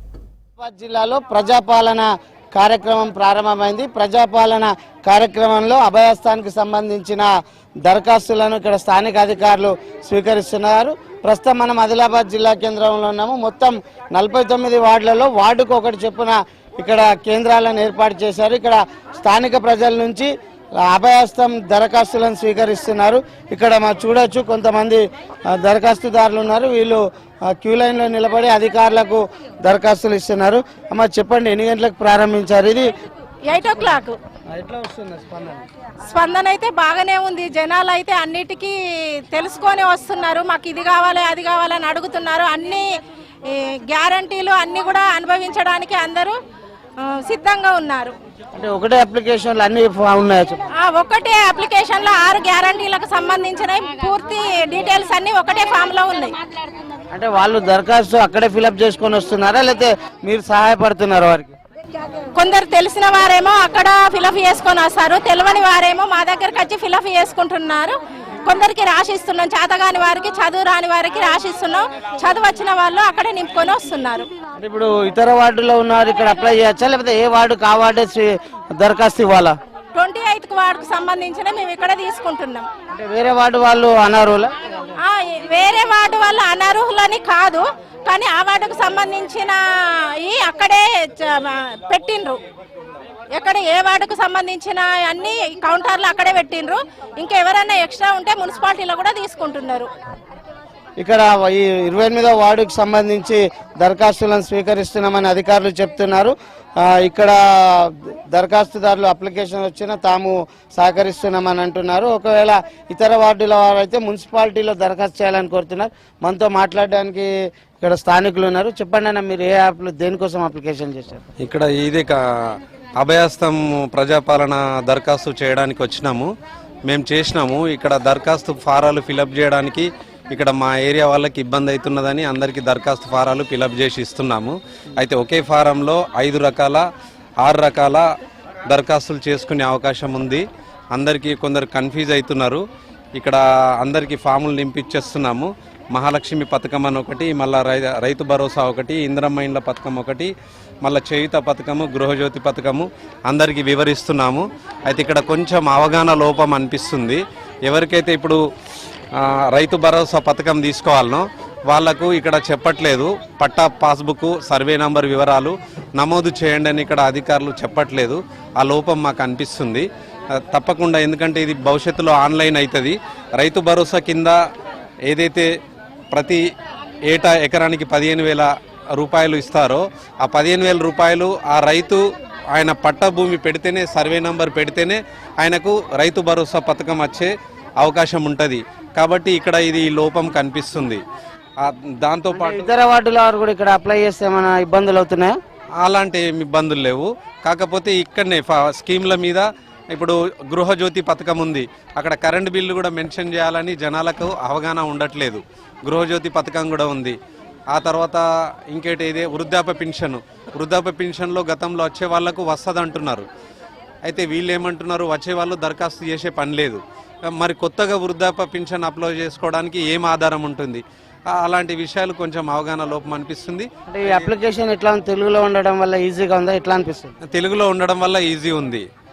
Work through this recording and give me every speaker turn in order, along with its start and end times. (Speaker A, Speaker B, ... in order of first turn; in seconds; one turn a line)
Speaker A: 0.6-7.3
Speaker A: 7.8-32.9
Speaker B: 33.5-34.2
Speaker A: 34.5-35.6
Speaker B: 36.1-38.7
Speaker B: 39.3-42.9
Speaker B: 43.5-46.3
Speaker B: 47.0-48.1
Speaker A: 48.5-50.6
Speaker B: 50.8-56.3
Speaker A: 57.1-61.5
Speaker B: 62.4-74.3
Speaker A: 74.6-79.5
Speaker B: 79.9-82.7
Speaker A: 82.9-84.5
Speaker B: 85.0-89.6
Speaker B: 90.2-92.4
Speaker B: 93.3-99.9
Speaker A: 101.0-117.3
Speaker A: 117.8-121.2
Speaker C: 121.4-122.2
Speaker C: 123.0-126.3
Speaker C: 126.8-136.8
Speaker C: 137.4-138.0
Speaker C: 138.7-142.6
Speaker C: 143.2-150.3
Speaker C: 150.8-158.4
Speaker C: 159.5-169.8
Speaker C: 170.4-174.3
Speaker C: 175.1-175.5
Speaker C: 176.1-176.4
Speaker C: 177.1-182.0
Speaker C: 182.5-191.0
Speaker C: 191.6-192.7
Speaker A: 192.3-195.3
Speaker C: 195.8-207.2
Speaker C: 207.7-213.2
Speaker C: 214.1-224.3
Speaker A: 223.9-227.1
Speaker C: 227.2-228.8